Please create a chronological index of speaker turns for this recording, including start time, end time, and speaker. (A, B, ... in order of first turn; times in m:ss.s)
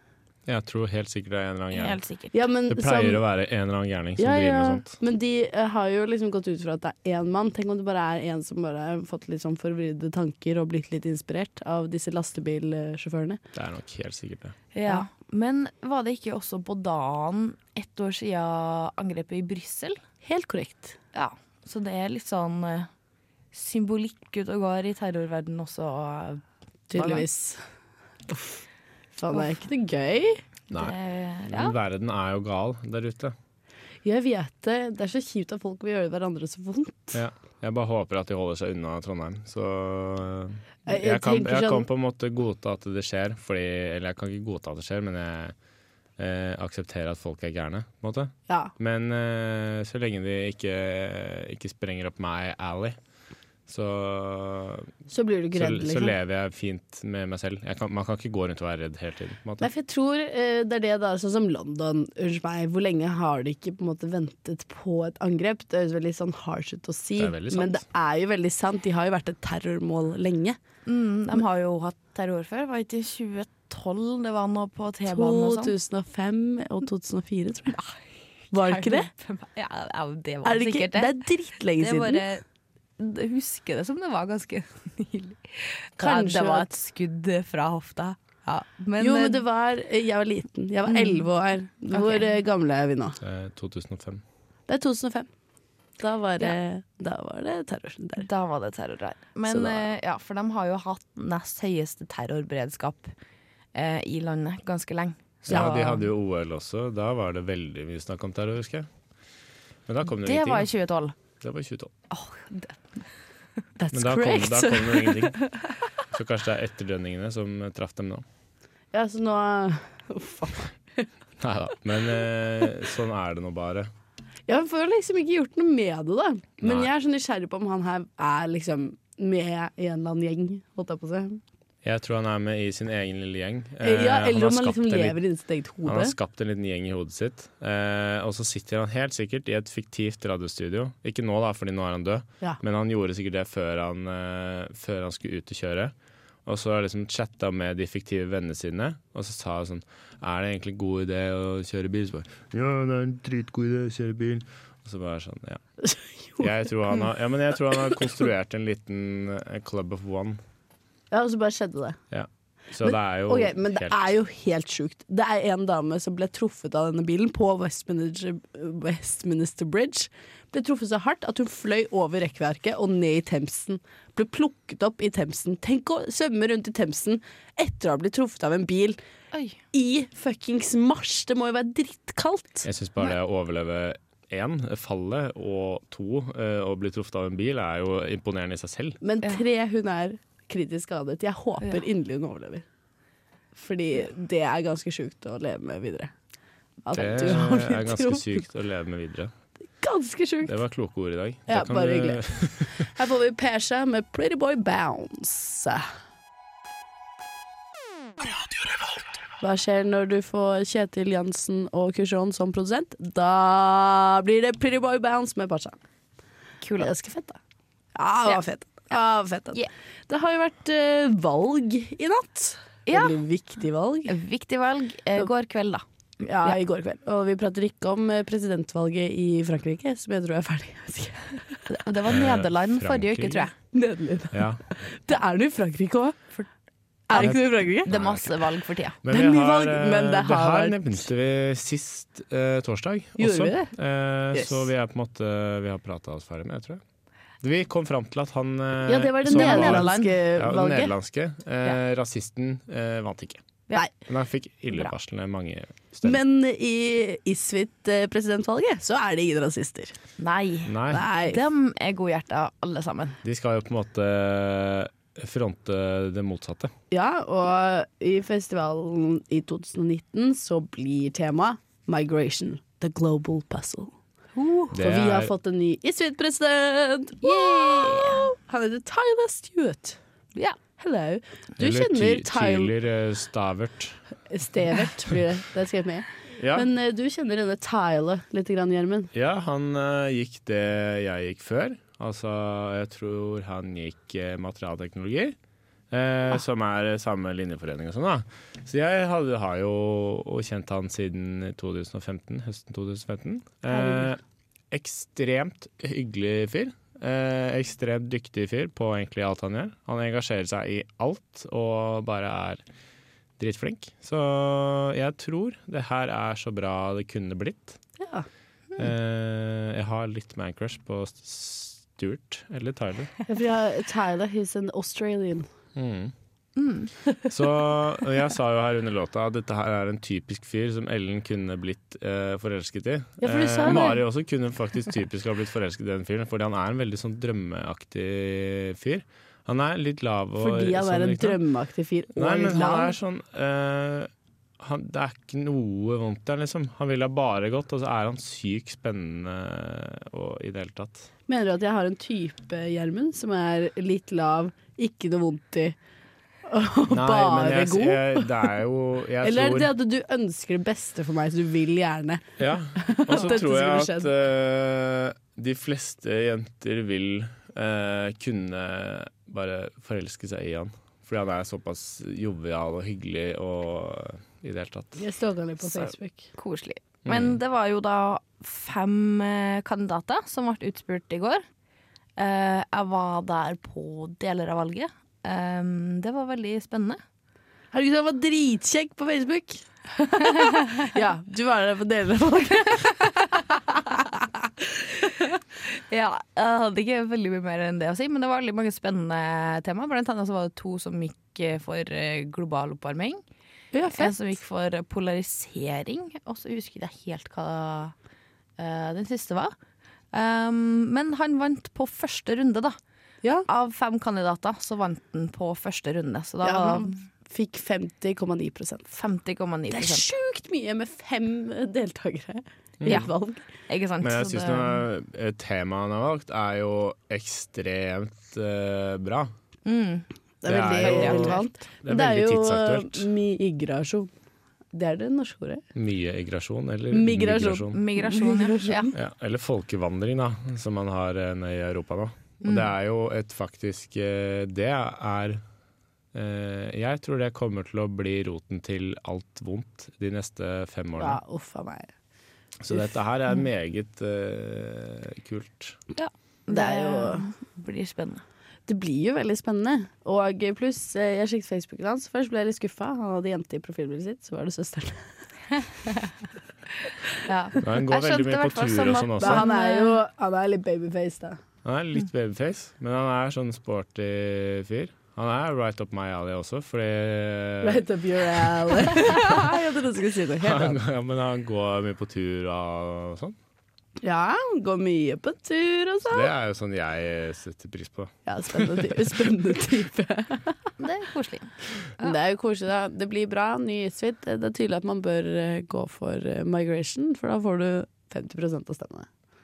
0:00.4-0:02.0 A
0:01.7-0:02.3 B
0:02.3-0:03.2 C
0:02.7-0:04.9 A
0:04.2-0:13.4 C
0:13.5-0:14.6 A
0:14.7-0:20.0 B
0:20.2-0:21.0 C
0:21.1-0:22.9 B
0:23.5-0:26.4 B
0:26.9-0:27.6 C
0:26.9-0:27.2 B
0:29.2-0:30.4 C
0:30.7-0:31.7 B
0:31.5-0:33.3 A
0:34.0-0:37.2 C
0:37.1-0:45.5 A
0:40.8-0:41.9 C
0:46.2-0:53.0 A
0:53.7-0:54.9 A
0:55.1-0:56.2 C
0:55.5-0:59.7 A
0:59.6-1:10.6 C
1:07.2-1:07.8 A
1:10.8-1:15.7 B
1:15.1-1:17.8 C
1:17.7-1:21.2 B
1:18.5-1:19.1 C
1:20.4-1:22.2 C
1:21.8-1:22.4 B
1:23.0-1:29.4 B
1:26.0-1:26.7 C
1:29.0-1:33.2 C
1:30.9-1:31.2 B
1:31.9-1:32.2 B
1:33.2-1:34.2 A
1:34.7-1:35.3 C
1:36.0-1:38.3 C
1:38.2-1:43.1 B
1:39.5-1:39.9 C
1:43.7-1:45.9 B
1:45.5-1:48.9 A
1:45.5-1:46.0 C
1:49.9-1:50.7 A
1:50.1-1:51.1 B
1:51.4-1:51.9 A
1:52.1-1:53.1 B
1:53.8-1:55.4 C
1:53.9-1:55.4 A
1:56.1-1:58.2 A
1:58.9-2:01.0 C
2:01.4-2:03.9 A
2:04.5-2:11.4 C
2:06.6-2:06.9 A
2:11.8-2:15.2 A
2:13.8-2:16.1 C
2:15.8-2:25.9 A
2:26.4-2:35.6 A
2:35.8-2:36.5 C
2:36.4-2:40.4 A
2:41.1-2:42.0 C
2:42.1-2:44.1 A
2:42.8-2:59.0 C
2:59.3-2:59.6 B
2:59.7-3:02.7 C
3:02.6-3:09.0 A
3:09.0-3:12.6 C
3:13.5-3:16.1 C
3:16.8-3:18.4 C
3:16.9-3:19.3 A
3:19.8-3:20.6 C
3:20.4-3:22.9 A
3:21.5-3:25.9 C
3:29.4-3:35.8 C
3:36.6-3:36.9 B
3:36.8-3:37.4 C
3:37.9-3:44.2 C
3:42.9-3:43.2 B
3:44.1-3:45.8 B
3:46.2-3:51.7 C
3:51.7-3:53.5 B
3:52.1-3:53.5 A
3:53.7-3:56.4 C
3:54.3-3:54.6 A
3:57.1-3:57.9 C
3:57.1-3:59.0 B
3:57.1-3:58.3 A
3:59.0-4:06.8 A
3:59.1-4:01.1 C
4:03.2-4:03.7 C
4:04.3-4:04.7 C
4:07.4-4:13.4 A
4:08.8-4:10.9 C
4:09.3-4:10.1 B
4:14.0-4:16.2 A
4:16.0-4:20.0 C
4:20.2-4:23.2 B
4:20.6-4:21.0 A
4:20.9-4:21.4 C
4:23.2-4:26.7 A
4:26.9-4:33.9 C
4:34.3-4:34.8 B
4:34.7-4:35.3 A
4:34.8-4:40.0 C
4:37.2-4:38.3 B
4:40.8-4:42.7 C
4:41.6-4:44.0 A
4:44.3-4:49.1 C
4:46.4-4:46.7 A
4:49.1-4:55.4 A
4:55.9-5:04.2 A
5:03.7-5:04.1 C
5:04.7-5:12.6 A
5:13.4-5:17.8 A
5:18.0-5:18.2 C
5:18.8-5:23.1 A
5:23.3-5:25.5 C
5:25.7-5:26.1 A
5:26.6-5:26.9 B
5:27.3-5:41.4 A
5:33.2-5:34.0 C
5:40.4-5:42.9 C
5:42.1-5:51.1 A
5:51.3-5:55.8 C
5:56.4-5:58.5 C
5:56.9-5:59.7 A
5:59.2-6:02.2 C
6:02.4-6:15.0 A
6:02.7-6:04.1 C
6:15.0-6:16.3 C
6:16.4-6:21.4 B
6:17.0-6:17.4 A
6:22.2-6:27.0 B
6:27.7-6:33.2 C
6:30.4-6:30.9 B
6:33.9-6:34.2 C
6:35.7-6:43.2 B
6:43.7-6:44.2 C
6:43.9-6:47.9 B
6:48.6-6:49.5 B
6:50.1-6:52.8 B
6:53.5-6:57.0 B
6:56.4-6:59.0 C
6:59.0-7:00.1 B
6:59.7-7:03.4 C
7:02.8-7:03.0 A
7:03.7-7:04.8 B
7:04.0-7:09.3 A
7:09.6-7:10.0 B
7:10.4-7:14.1 C
7:10.4-7:13.1 A
7:10.8-7:11.5 B
7:14.7-7:15.6 C
7:15.7-7:17.8 A
7:16.9-7:18.9 C
7:17.7-7:18.9 B
7:18.9-7:25.4 A
7:22.4-7:22.7 B
7:26.1-7:31.2 A
7:31.0-7:31.9 C
7:32.6-7:35.8 A
7:36.0-7:38.2 B
7:36.5-7:37.3 C
7:38.7-7:45.1 C
7:47.2-7:50.0 B
7:47.6-7:49.5 A
7:49.2-7:51.4 C
7:51.6-7:59.4 A
7:57.6-8:00.8 C
8:00.4-8:03.4 A
8:04.0-8:06.3 C
8:06.1-8:09.2 A
8:08.2-8:10.6 C
8:10.8-8:12.2 B
8:12.0-8:19.1 C